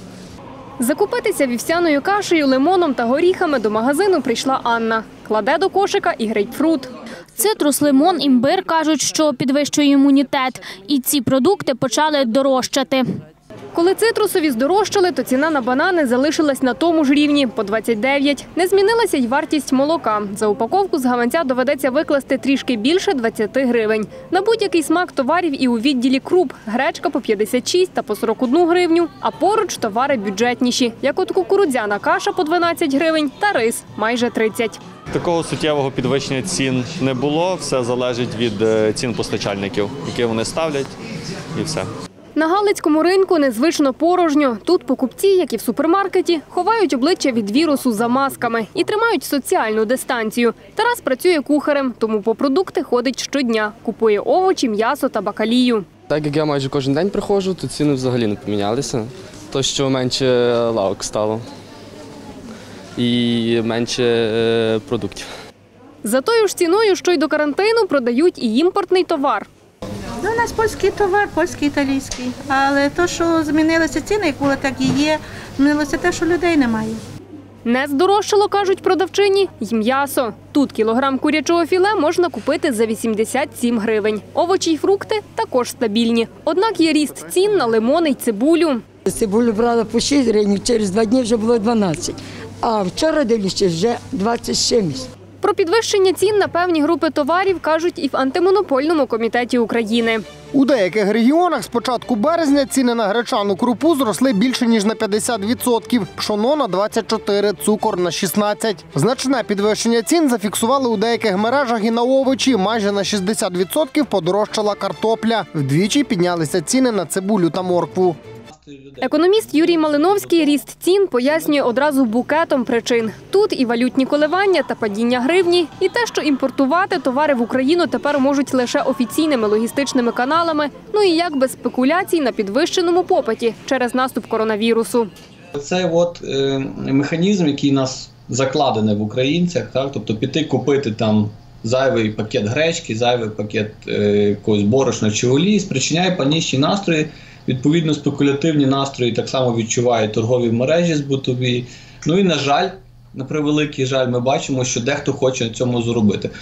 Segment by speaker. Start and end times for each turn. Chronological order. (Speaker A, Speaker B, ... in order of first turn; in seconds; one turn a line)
Speaker A: 0.8-6.9
Speaker B: 7.3-13.1
Speaker A: 13.7-34.8
Speaker C: 35.1-40.9
Speaker C: 41.5-41.9
Speaker A: 42.4-55.9
Speaker D: 56.1-61.5
Speaker D: 63.0-65.3
Speaker A: 66.0-69.5
Speaker E: 70.2-77.0
Speaker A: 77.7-88.8
Speaker F: 89.1-95.0
Speaker A: 95.4-100.2
Speaker G: 100.5-118.2
Speaker H: 118.5-120.4
Speaker A: 119.0-135.1
Speaker H: 135.6-156.3